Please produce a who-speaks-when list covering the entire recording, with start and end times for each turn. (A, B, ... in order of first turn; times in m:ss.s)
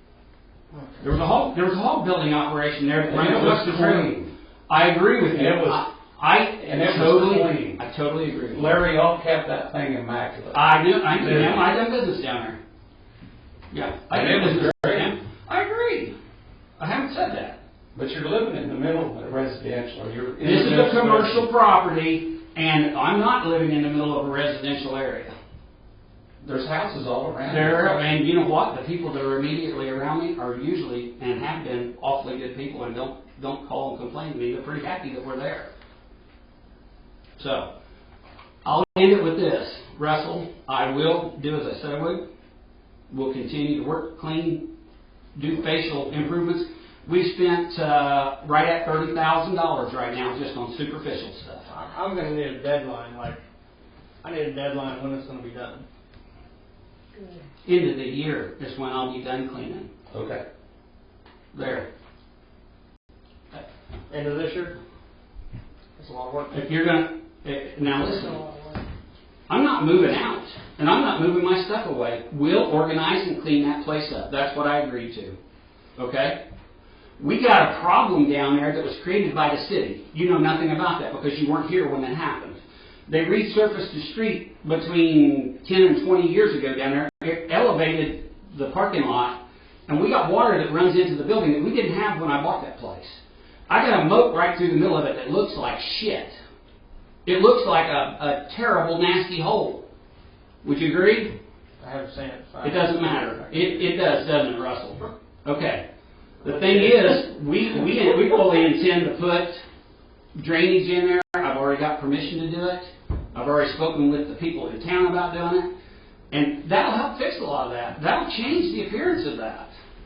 0:00.7-0:01.0 A
0:01.0-0:08.7 B
0:03.1-0:04.3 C
0:05.3-0:05.8 C
0:06.6-0:07.8 C
0:08.5-0:10.6 C
0:10.5-0:12.6 B
0:11.2-0:11.6 C
0:13.7-0:16.1 B
0:14.1-0:15.1 C
0:16.8-0:17.6 B
0:17.9-0:21.4 C
0:20.4-0:25.3 B
0:26.4-0:28.1 C
0:27.5-0:35.7 B
0:37.4-0:37.7 B
0:38.6-0:42.2 B
0:43.1-0:44.6 B
0:45.3-0:51.7 B
0:51.7-0:53.4 A
0:54.2-0:55.8 A
0:57.6-0:59.9 B
1:00.1-1:00.4 C
1:01.5-1:01.9 B
1:04.1-1:04.8 A
1:06.0-1:06.6 A
1:06.5-1:08.4 B
1:08.4-1:08.7 A
1:09.5-1:15.4 B
1:16.0-1:16.4 B
1:17.2-1:36.4 B
1:37.2-1:39.8 B
1:40.6-1:41.3 B
1:41.8-1:43.8 A
1:42.6-1:45.8 B
1:46.4-1:49.6 B
1:46.4-1:47.2 A
1:50.3-1:55.7 B
1:56.3-1:59.7 B